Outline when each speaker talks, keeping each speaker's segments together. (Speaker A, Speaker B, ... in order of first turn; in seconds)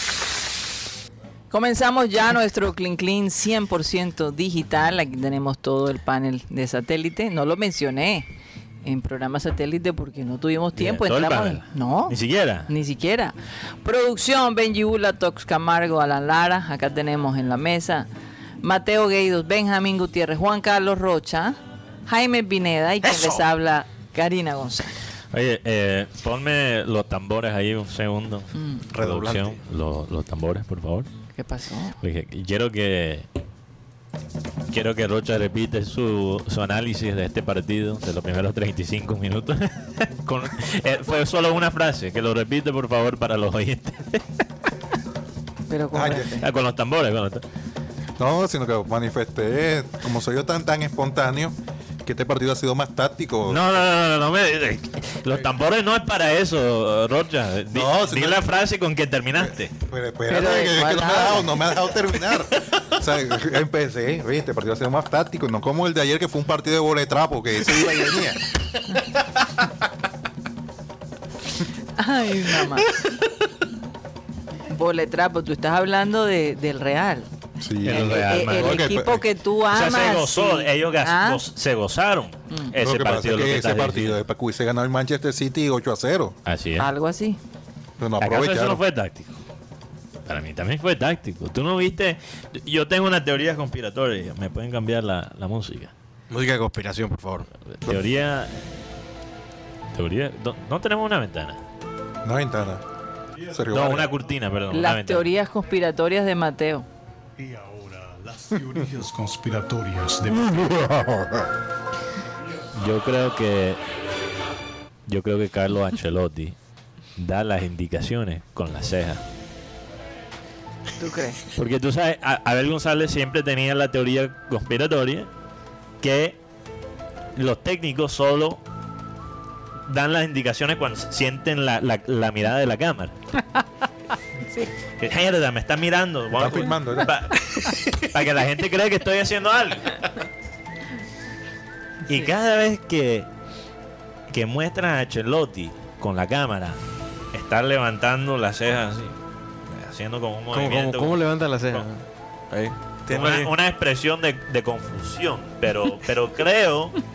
Speaker A: 1.5-8.3, 8.8-12.2, 12.7-18.1, 18.6-25.0, 28.6-28.9, 31.3-32.0, 45.7-46.5, 60.3-61.6, 72.0-72.9, 74.7-77.3, 77.9-81.4, 86.8-87.4, 104.7-106.9, 121.0-121.4
Speaker B: 10.8-12.7, 25.3-31.1, 32.0-33.3, 34.7-44.3, 46.4-47.4, 53.5-59.7, 77.8-79.1, 79.7-84.2, 86.5-86.9, 88.2-89.4, 90.3-95.9, 97.8-98.8, 99.9-101.6, 103.7-105.3, 112.8-113.8, 115.1-116.5, 117.2-119.2, 121.5-125.3, 126.0-126.4, 127.4-128.6, 129.9-133.2, 135.0-140.1, 142.1-143.3, 144.3-146.8, 147.3-149.2, 149.7-151.8, 153.1-157.0
Speaker C: 23.0-23.4, 28.9-29.6, 96.3-97.5, 150.5-153.5
Speaker D: 45.9-46.3, 48.2-53.7, 57.7-58.5, 59.4-68.5, 77.6-79.2, 82.8-86.4, 88.0-88.8, 102.2-102.8, 103.5-104.2, 136.3-137.1
Speaker E: 107.4-111.1